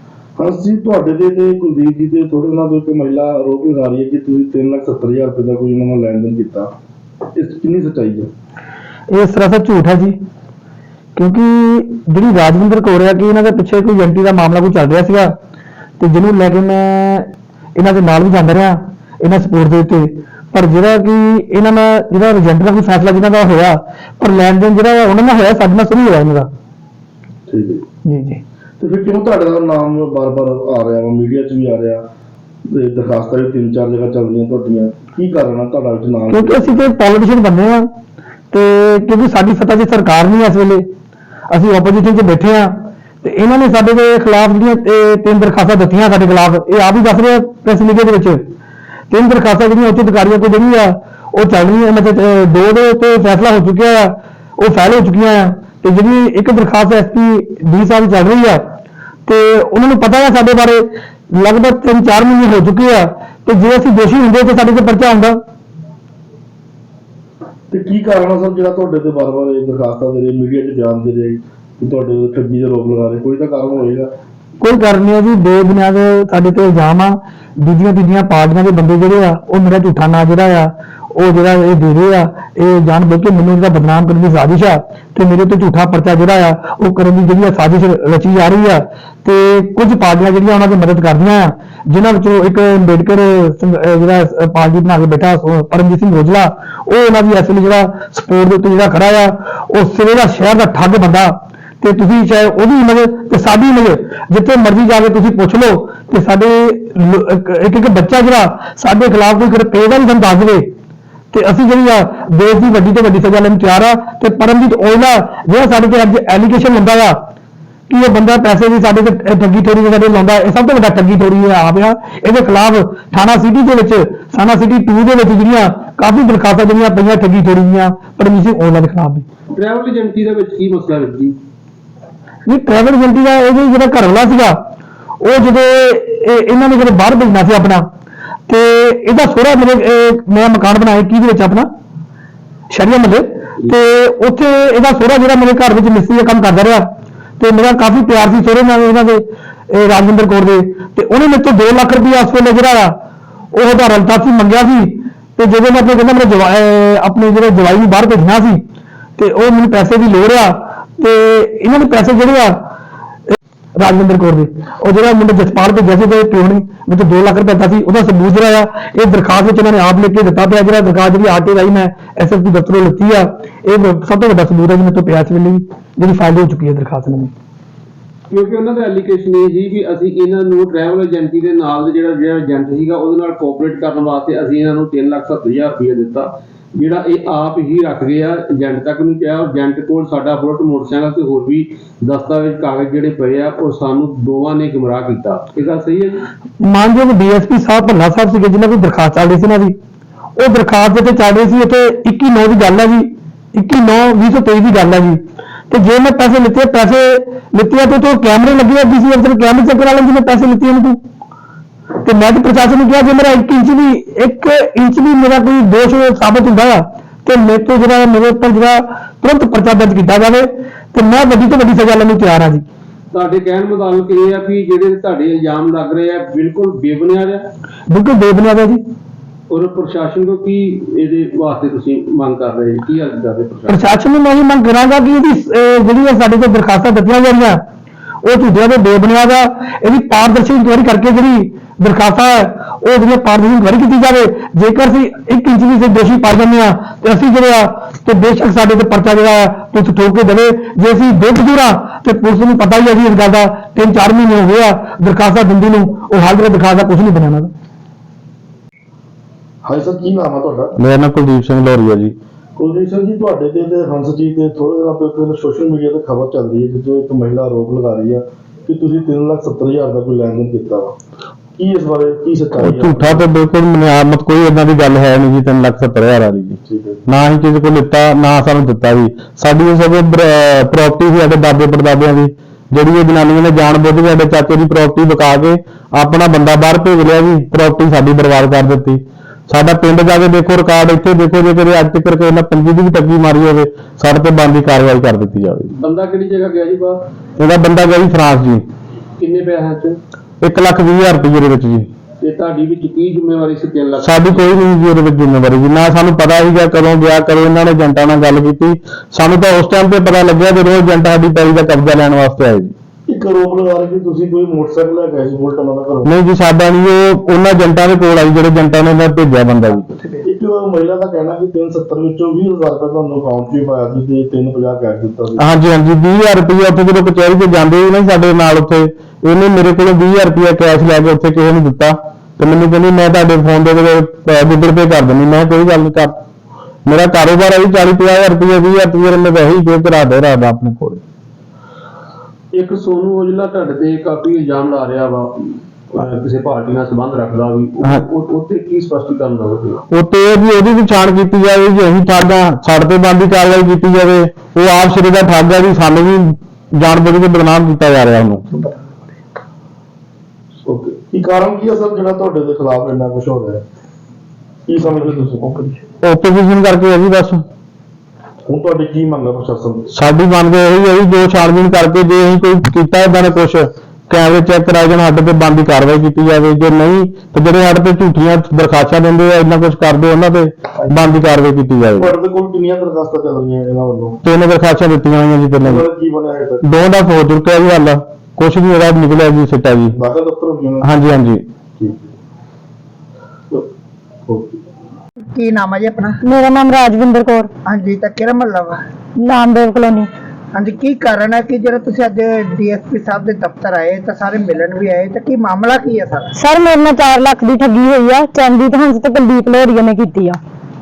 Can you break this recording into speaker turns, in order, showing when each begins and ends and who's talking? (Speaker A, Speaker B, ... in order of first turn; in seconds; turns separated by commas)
Speaker A: 0.4-6.7, Speaker A: 7.3-8.3, Speaker B: 9.1-10.2, Speaker B: 11.2-15.3, Speaker B: 16.0-26.5, Speaker A: 27.5-27.8, Speaker B: 28.0-28.4, Speaker A: 28.8-32.0, Speaker A: 32.6-36.8, Speaker B: 36.3-37.9, Speaker B: 38.5-40.9, Speaker B: 41.5-48.4, Speaker B: 49.1-58.6, Speaker B: 59.3-65.4, Speaker A: 67.7-74.1, Speaker B: 74.6-110.7, Speaker B: 111.3-117.2, Speaker B: 117.9-129.2, Speaker C: 129.5-131.3, Speaker B: 132.5-134.6, Speaker B: 135.2-137.9, Speaker B: 138.5-141.7, Speaker B: 142.7-146.9, Speaker B: 147.4-152.9, Speaker B: 153.5-158.6, Speaker B: 159.2-162.6, Speaker B: 163.3-177.3, Speaker C: 178.3-196.2, Speaker B: 196.6-199.8, Speaker B: 200.4-211.0, Speaker B: 212.0-222.6, Speaker C: 223.1-227.5, Speaker B: 227.9-228.8, Speaker C: 229.5-233.8, Speaker B: 233.7-237.6, Speaker B: 238.2-257.5, Speaker A: 259.6-260.7, Speaker D: 260.8-262.1, Speaker A: 262.6-270.9, Speaker A: 271.6-273.3, Speaker D: 272.6-295.7, Speaker A: 276.6-277.1, Speaker C: 295.7-297.0, Speaker D: 297.4-298.6, Speaker C: 299.2-300.0, Speaker D: 300.4-301.9, Speaker C: 302.2-304.6, Speaker D: 304.0-312.7, Speaker A: 313.1-316.1, Speaker D: 316.0-320.0, Speaker A: 320.2-325.4, Speaker D: 325.4-336.1, Speaker D: 336.9-341.0, Speaker C: 342.5-349.8, Speaker D: 349.9-358.6, Speaker A: 360.6-363.6, Speaker A: 364.7-365.6, Speaker D: 366.0-367.4, Speaker A: 368.5-369.9, Speaker D: 369.9-382.1, Speaker A: 380.8-381.1, Speaker A: 382.0-384.2, Speaker D: 384.2-385.9, Speaker A: 385.6-386.6, Speaker D: 386.6-390.0, Speaker A: 389.9-391.0, Speaker D: 390.8-391.4, Speaker A: 391.8-392.1, Speaker A: 394.3-394.6, Speaker E: 395.3-396.2, Speaker F: 396.2-397.5, Speaker E: 397.6-398.8, Speaker F: 399.2-400.1, Speaker E: 400.5-406.3, Speaker F: 406.4-410.4